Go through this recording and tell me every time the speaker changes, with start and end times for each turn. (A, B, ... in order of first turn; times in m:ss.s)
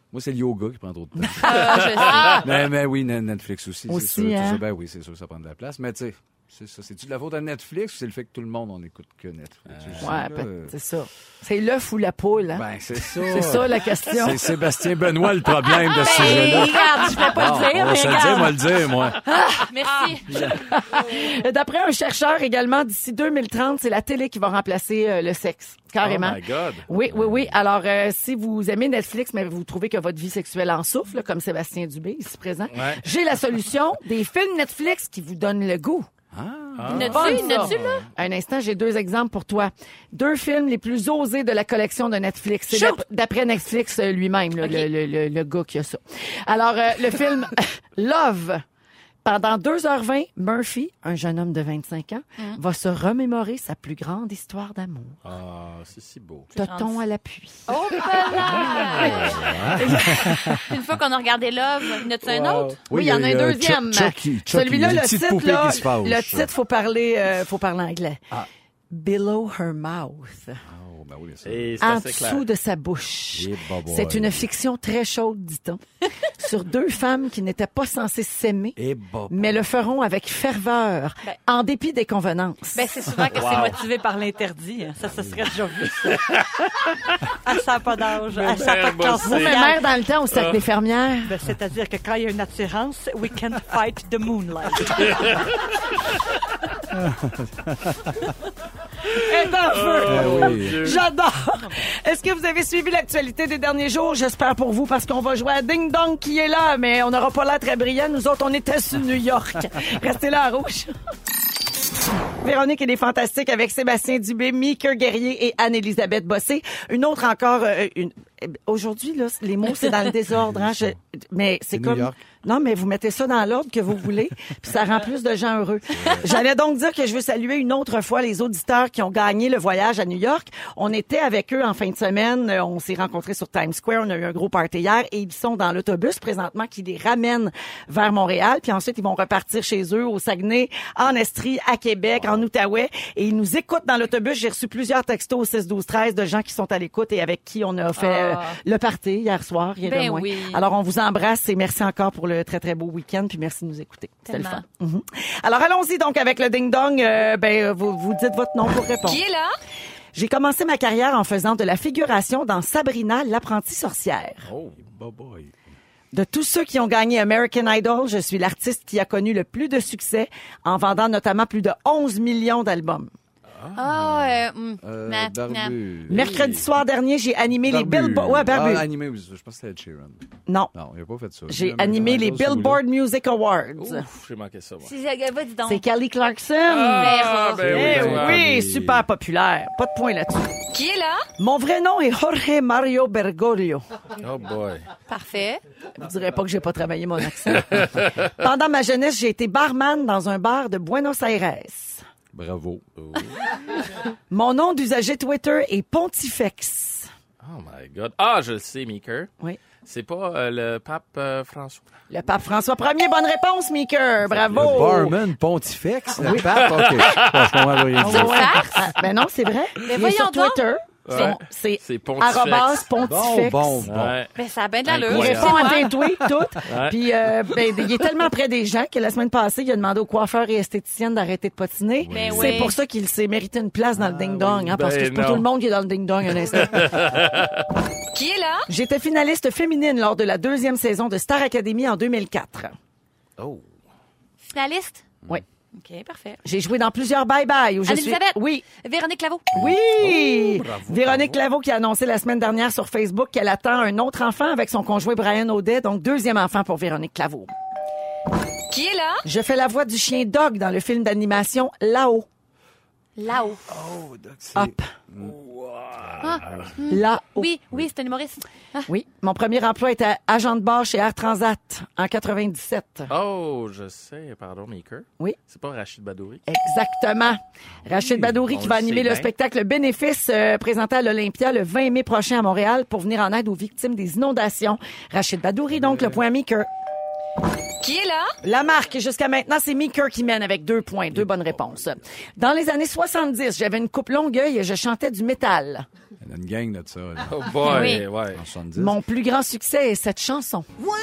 0:00.1-0:10.7 A
0:01.2-0:02.3 B
0:01.4-0:02.5 C
0:02.1-0:02.4 D
0:03.9-0:04.6 B
0:09.7-0:10.0 D
0:10.0-0:14.4 B
0:12.5-0:19.2 A
0:15.8-0:18.6 C
0:16.2-0:16.5 B
0:19.2-0:36.1 B
0:19.6-0:20.6 C
0:20.3-0:20.6 A
0:26.0-0:26.8 D
0:27.1-0:27.5 A
0:32.7-0:33.0 D
0:36.3-0:37.9 A
0:36.8-0:37.9 D
0:36.9-0:38.0 C
0:37.0-0:48.6 B
0:42.7-0:43.0 C
0:44.6-0:44.9 C
0:49.2-0:55.2 B
0:55.2-0:56.5 D
0:56.5-0:57.0 C
0:56.5-0:57.7 B
0:57.7-1:02.8 C
0:58.3-0:59.8 D
0:59.3-1:00.6 A
0:59.8-1:00.6 B
1:02.2-1:02.8 D
1:02.8-1:06.5 A
1:02.9-1:08.2 B
1:08.9-1:10.6 B
1:10.7-1:11.9 A
1:11.4-1:12.4 D
1:11.8-1:18.8 B
1:13.3-1:14.5 A
1:18.8-1:19.6 A
1:19.3-1:22.9 B
1:22.7-1:24.6 C
1:23.3-1:23.8 D
1:24.5-1:26.3 E
1:25.1-1:25.4 A
1:26.3-1:26.9 D
1:27.4-1:29.8 E
1:28.3-1:29.6 D
1:29.2-1:31.3 B
1:31.2-1:35.4 E
1:35.0-1:35.5 D
1:36.9-1:38.0 A
1:39.1-1:50.9 B
1:39.7-1:41.0 D
1:40.0-1:41.0 A
1:52.4-2:39.2 B
2:00.3-2:01.0 A
2:01.7-2:02.2 A
2:05.9-2:06.2 A
2:27.9-2:28.6 C
2:29.8-2:30.6 C
2:34.3-2:34.6 C
2:39.0-2:39.6 C
2:40.1-2:44.5 B
2:44.5-2:44.8 D
2:44.8-2:45.5 A
2:46.1-2:53.1 B
2:53.6-2:53.8 D
2:53.7-2:55.8 C
2:53.9-2:56.6 A
2:56.1-2:58.9 B
2:56.2-2:56.5 D
2:57.7-3:00.2 A
3:00.5-3:00.7 B
3:00.7-3:02.8 A
3:01.5-3:04.0 B
3:03.8-3:04.9 D
3:04.8-3:05.8 C
3:05.7-3:10.5 B
3:06.7-3:08.4 D
3:06.9-3:07.9 C
3:07.6-3:09.0 A
3:10.7-3:11.2 C
3:11.4-3:13.8 B
3:14.2-3:14.8 D
3:15.1-3:15.6 C
3:16.0-3:22.0 B
3:17.5-3:18.3 D
3:22.3-3:23.2 A
3:23.0-3:23.6 D
3:24.3-3:27.1 B
3:27.4-3:29.3 D
3:29.8-3:31.8 D
3:32.1-3:35.2 B
3:34.3-3:35.0 D
3:34.5-3:38.7 A
3:36.2-3:36.5 B
3:36.5-3:37.3 D
3:38.0-3:43.9 B
3:38.0-3:38.9 C
3:39.8-3:40.6 C
3:41.0-3:42.9 D
3:43.0-3:44.2 A
3:43.8-3:44.3 D
3:44.3-3:46.0 C
3:44.8-3:45.8 D
3:45.1-3:57.0 B
3:46.6-3:47.0 D
3:52.0-3:52.7 A
3:52.1-3:52.8 C
3:53.9-3:54.8 A
3:54.7-3:55.5 D
3:56.5-3:57.6 D
3:58.1-3:58.7 C
3:58.7-4:02.7 B
4:03.4-4:03.6 D
4:04.4-4:05.0 C
4:05.7-4:06.4 C
4:06.4-4:08.6 B
4:07.8-4:09.7 C
4:09.5-4:17.5 B
4:10.0-4:11.4 D
4:18.7-4:19.2 C
4:19.2-4:22.3 B
4:23.2-4:23.6 C
4:23.7-4:25.3 A
4:24.5-4:24.9 B
4:25.2-4:26.7 D
4:26.2-4:26.6 A
4:26.2-4:28.9 C
4:26.9-4:27.5 B
4:28.9-4:33.1 B
4:33.1-4:36.4 D
4:36.5-4:46.7 B
4:37.9-4:38.2 A
4:38.0-4:39.3 D
4:45.7-4:46.2 A
4:47.8-4:48.3 C
4:48.4-4:55.8 B
4:51.1-4:51.8 A
4:56.2-4:59.0 A
4:57.2-4:58.4 D
4:57.6-4:58.0 C
4:58.8-5:00.7 B